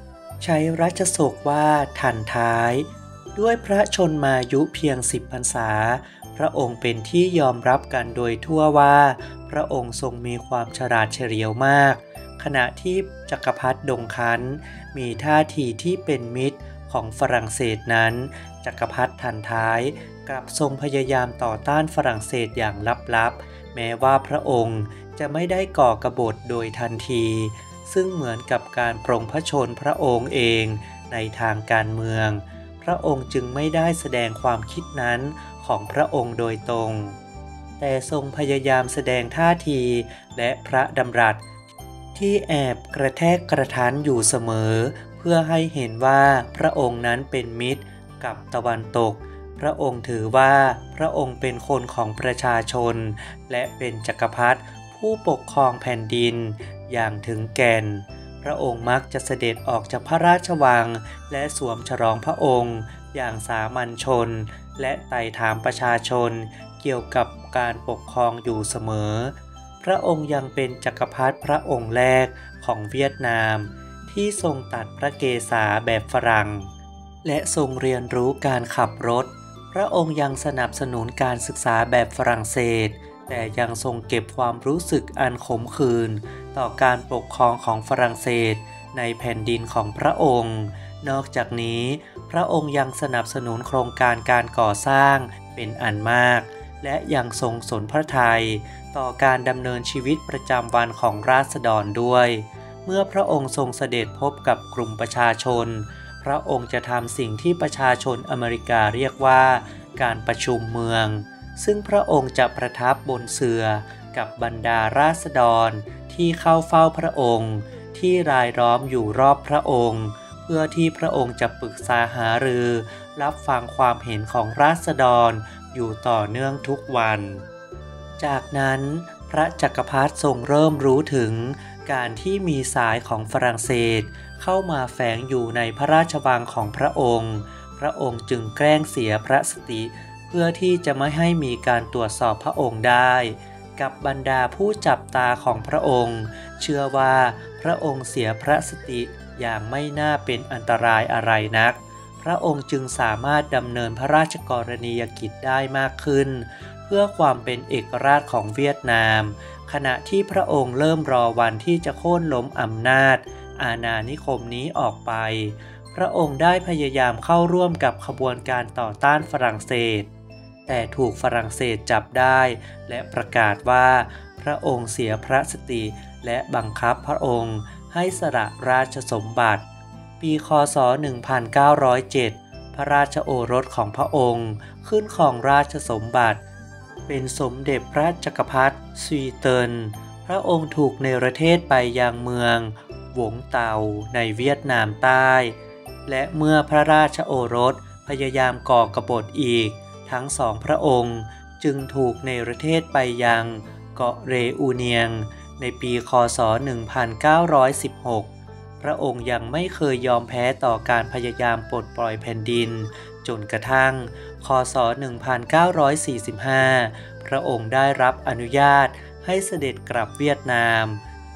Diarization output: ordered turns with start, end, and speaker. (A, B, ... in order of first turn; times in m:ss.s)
0:00.4-0:37.2 A
0:37.8-0:41.4 A
0:42.1-1:16.7 A
1:17.2-2:07.4 A
2:08.2-2:50.1 A
2:50.7-2:59.6 A
3:00.2-3:06.4 A
3:07.1-3:41.0 A